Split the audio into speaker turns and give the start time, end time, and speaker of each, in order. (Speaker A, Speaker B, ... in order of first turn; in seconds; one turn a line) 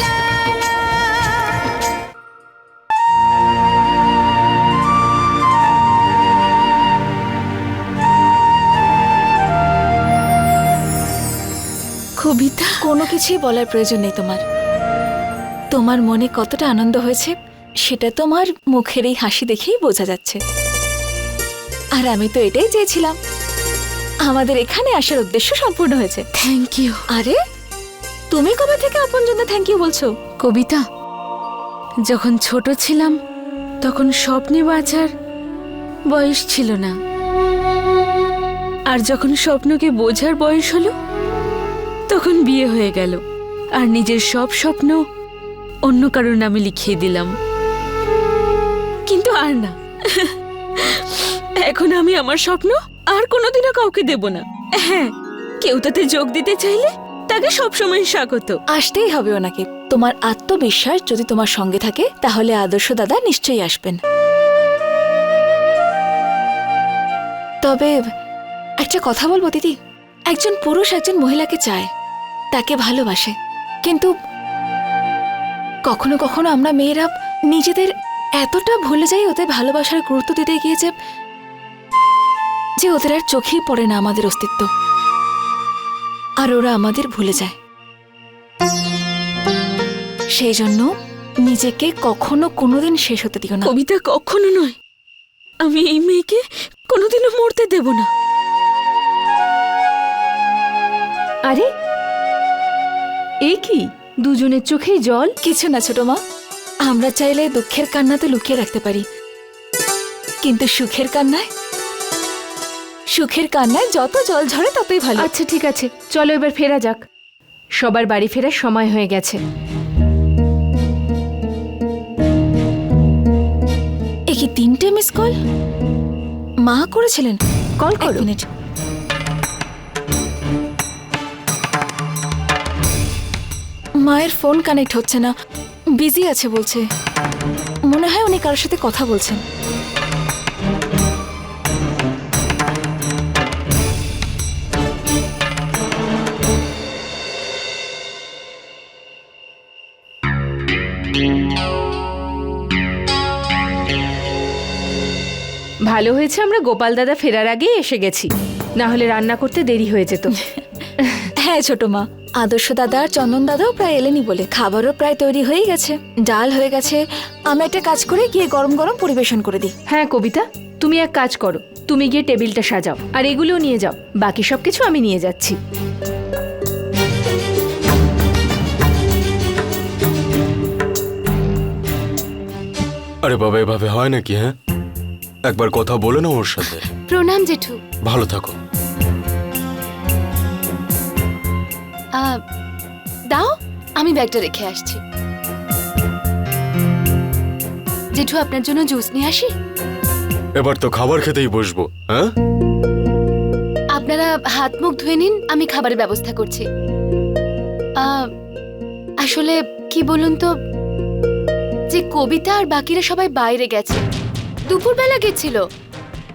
Speaker A: 12.2-13.1
Speaker B: 12.8-14.4
Speaker B: 15.7-17.3
Speaker B: 17.9-20.4
Speaker B: 22.0-23.1
Speaker B: 24.3-26.2
Speaker A: 26.4-27.0
Speaker B: 27.1-27.4
Speaker B: 28.3-30.1
Speaker A: 30.4-30.8
Speaker A: 32.0-33.1
Speaker A: 33.8-35.1
Speaker A: 36.1-36.9
Speaker A: 38.9-40.9
Speaker A: 42.1-43.2
Speaker A: 43.8-45.0
Speaker A: 45.9-47.3
Speaker A: 49.0-58.6
Speaker B: 58.7-64.0
Speaker B: 67.6-68.0
Speaker B: 68.8-69.7
Speaker B: 70.3-71.9
Speaker B: 72.5-73.3
Speaker B: 73.8-74.1
Speaker B: 75.9-80.9
Speaker B: 82.8-84.7
Speaker B: 86.4-87.5
Speaker B: 90.4-90.9
Speaker B: 91.5-93.7
Speaker A: 93.6-94.8
Speaker A: 95.6-98.1
Speaker C: 103.5-105.3
Speaker B: 105.4-106.2
Speaker B: 106.8-109.0
Speaker B: 110.4-111.5
Speaker B: 113.1-115.3
Speaker C: 115.2-117.0
Speaker C: 117.8-119.4
Speaker B: 124.3-125.3
Speaker B: 126.7-128.4
Speaker B: 134.0-135.3
Speaker B: 135.9-136.8
Speaker B: 137.9-139.4
Speaker C: 155.9-160.3
Speaker C: 161.0-161.3
Speaker B: 161.4-169.7
Speaker C: 169.9-175.6
Speaker D: 183.2-184.5
Speaker D: 185.4-186.9
Speaker E: 187.1-187.8
Speaker D: 188.0-188.6
Speaker E: 193.3-195.0
Speaker E: 198.2-199.5
Speaker D: 200.6-202.3
Speaker E: 203.9-206.7
Speaker E: 208.0-208.2
Speaker E: 209.2-210.5
Speaker E: 211.9-214.0
Speaker E: 214.7-215.6